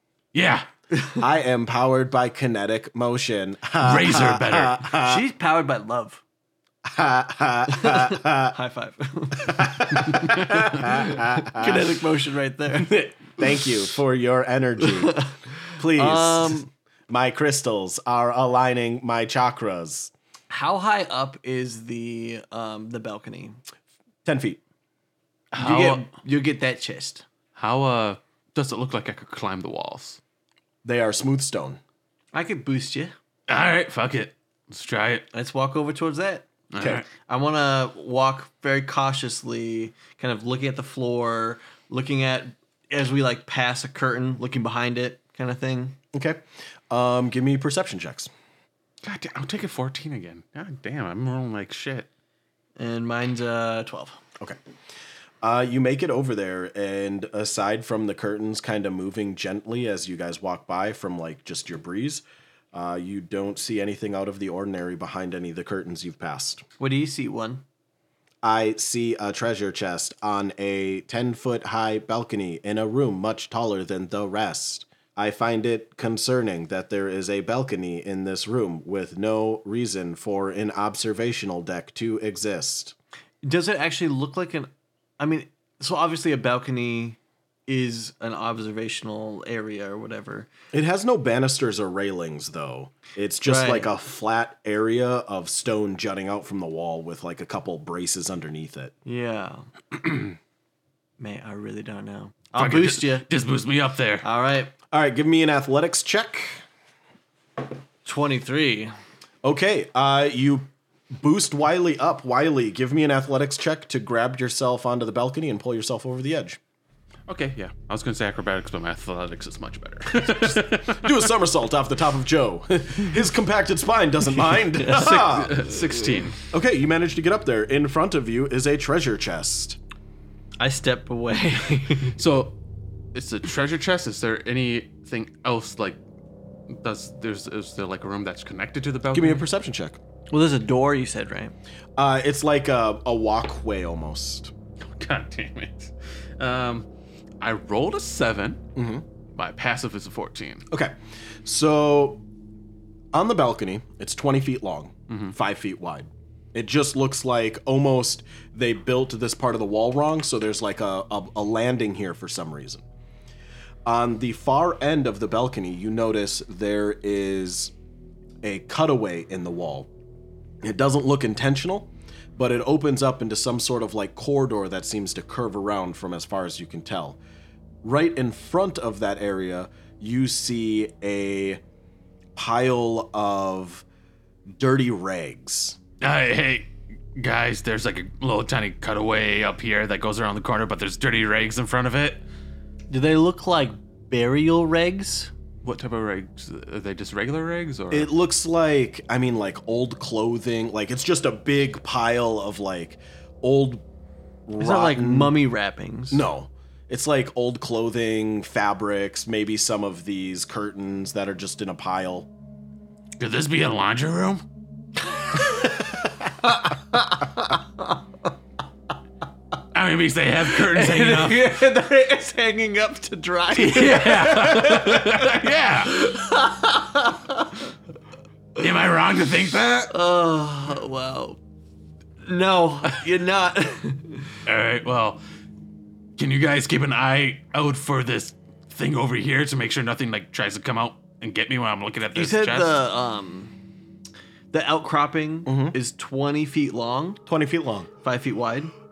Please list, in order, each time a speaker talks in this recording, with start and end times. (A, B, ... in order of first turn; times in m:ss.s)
0:00.3-0:00.7 A
0:01.0-0:01.2 B
0:01.2-0:05.2 C
0:03.8-0:04.8 A
0:05.0-0:06.2 B
0:06.8-0:08.6 C
0:07.8-0:13.0 B
0:09.4-0:12.0 C
0:12.8-0:15.2 C
0:15.1-0:16.6 B
0:15.8-0:20.1 C
0:20.5-0:23.6 B
0:24.2-0:24.6 C
0:25.5-0:26.1 A
0:25.6-0:27.2 B
0:27.6-0:30.2 A
0:30.8-0:31.8 C
0:32.3-0:33.2 B
0:33.5-0:35.3 A
0:35.3-0:36.5 B
0:36.7-0:37.0 A
0:37.2-0:46.0 B
0:46.1-0:48.3 C
0:49.0-0:52.1 A
0:52.8-0:54.2 B
0:55.4-1:06.6 C
1:06.8-1:07.6 B
1:08.4-1:23.0 C
1:23.4-1:30.5 B
1:30.7-1:38.9 C
1:33.4-1:33.9 B
1:39.0-1:39.7 B
1:41.2-1:43.3 B
1:42.6-1:44.2 A
1:44.2-1:44.7 B
1:44.9-1:46.6 C
1:48.0-1:48.9 B
1:49.4-1:56.6 C
1:57.3-2:01.2 A
2:00.1-2:05.6 C
2:04.8-2:06.4 A
2:06.5-2:09.8 C
2:10.6-2:12.2 B
2:12.2-2:12.6 A
2:13.1-2:16.0 A
2:16.7-2:19.4 A
2:19.1-2:20.0 C
2:20.3-2:21.5 B
2:22.0-2:24.5 C
2:24.9-2:26.9 A
2:27.4-2:28.6 A
2:28.8-2:29.0 C
2:29.4-2:30.6 A
2:30.7-2:32.2 C
2:33.1-2:42.8 C
2:43.9-2:47.7 C
2:48.4-2:49.9 C
2:50.6-2:57.2 C
2:57.8-3:01.6 C
3:02.4-3:03.8 C
3:04.5-3:05.8 C
3:06.0-3:12.2 A
3:12.9-3:15.3 B
3:15.6-3:18.1 A
3:17.9-3:23.8 C
3:24.5-3:25.4 C
3:24.6-3:26.2 B
3:26.1-3:32.3 C
3:33.2-3:34.4 A
3:35.2-3:35.8 B
3:36.6-3:38.0 B
3:39.7-3:41.5 A
3:40.4-3:47.6 B
3:43.5-3:46.0 A
3:48.6-3:49.9 A
3:49.9-3:51.4 B
3:52.2-3:54.4 B
3:54.5-3:55.2 A
3:56.2-4:02.8 A
4:02.1-4:03.5 B
4:04.5-4:07.2 B
4:05.5-4:05.8 C
4:07.3-4:07.9 C
4:08.0-4:08.7 B